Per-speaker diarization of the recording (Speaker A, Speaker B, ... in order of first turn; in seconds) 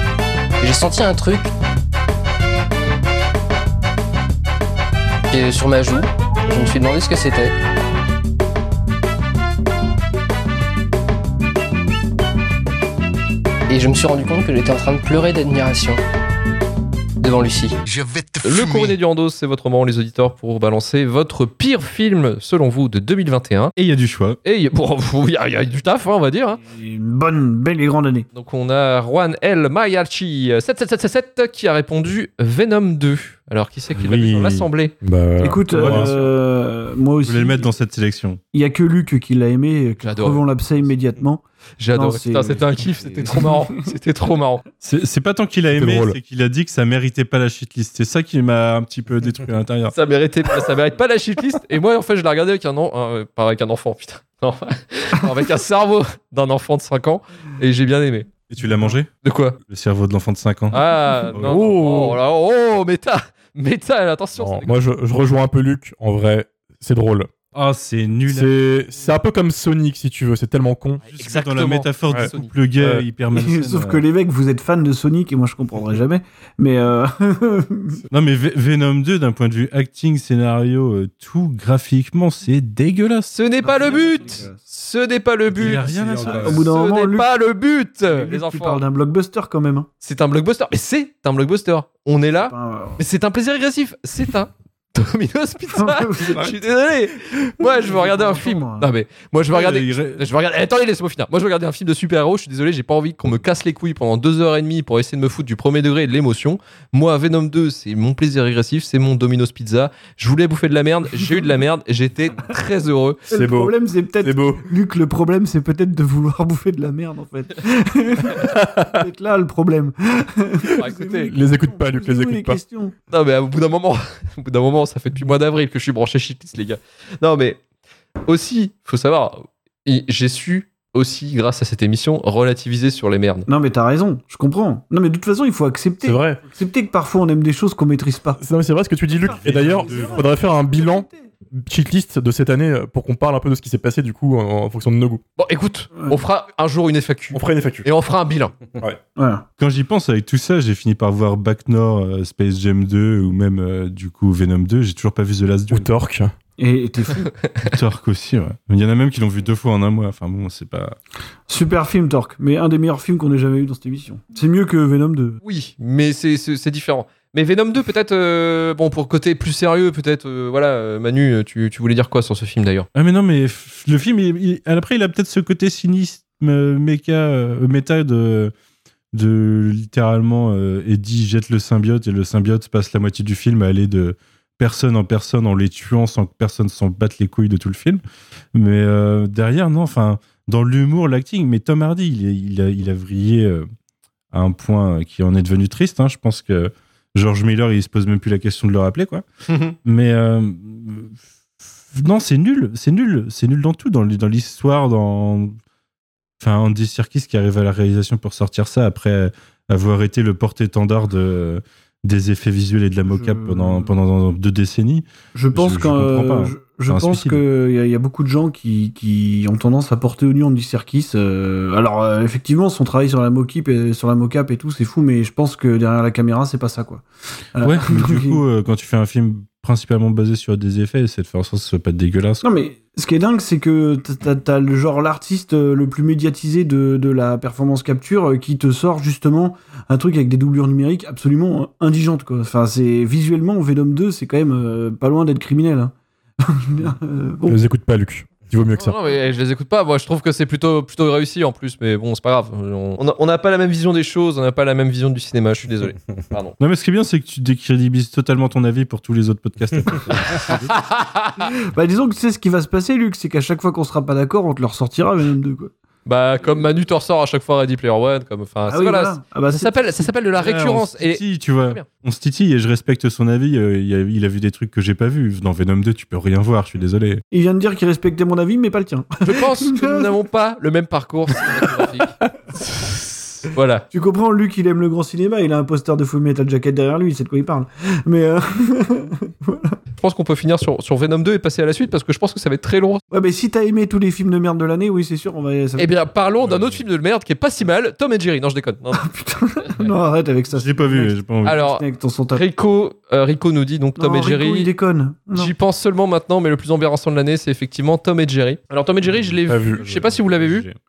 Speaker A: 0.6-1.5, 5.3-7.5, 13.7-16.0, 17.2-17.8
Speaker B: 17.9-18.9, 85.6-86.6
Speaker C: 18.4-23.7, 24.4-26.6, 28.4-34.9, 40.0-40.4, 41.8-44.6, 49.9-58.4, 59.2-59.6, 60.7-64.8, 71.1-72.5, 83.3-88.8, 90.0-113.2, 120.8-121.3, 123.1-127.6, 128.3-133.5, 145.4-148.6, 157.2-157.7, 165.4-172.9, 199.5-199.8, 248.8-256.6, 260.1-261.5, 266.1-271.9, 279.2-282.1, 282.8-283.9, 290.0-293.0, 295.8-299.1, 301.4-304.7, 305.3-310.7
Speaker D: 23.8-24.4, 34.0-34.7, 35.7-36.3, 37.2-38.4, 44.8-50.0, 58.5-59.1, 59.7-60.8, 61.3-61.8, 67.5-68.5, 71.1-74.0, 78.1-84.0, 85.5-86.7, 99.5-100.2, 139.2-140.3, 149.6-155.9, 157.6-161.0, 172.9-178.5, 179.1-188.0, 188.5-193.7, 194.3-199.2, 199.8-201.2, 201.9-205.6, 206.4-217.4, 227.6-232.5, 256.6-260.7, 270.3-277.2, 296.4-296.8, 300.5-301.6, 309.3-310.8
Speaker E: 26.6-28.3, 35.4-37.7, 38.5-41.4, 41.9-43.9, 73.3-78.0, 83.6-84.6, 86.2-87.3, 88.1-89.9, 92.5-93.0, 95.7-96.6, 97.6-98.9, 113.3-123.0, 133.5-138.4, 139.2-141.3, 149.2-149.5, 156.6-157.3, 161.5-165.4, 213.1-213.9, 215.3-228.4, 232.4-247.6, 261.4-265.7, 268.7-270.1, 277.3-280.1, 283.9-289.8, 293.1-295.9, 298.9-302.4, 304.0-305.5
Speaker F: 35.0-36.1, 45.7-46.2, 61.4-62.2, 64.4-67.3, 68.3-71.0, 72.1-73.0, 113.3-114.7, 118.4-119.0, 121.2-122.6, 136.0-136.4, 138.4-145.2, 147.3-147.9, 155.7-156.3, 247.5-249.0, 309.5-309.8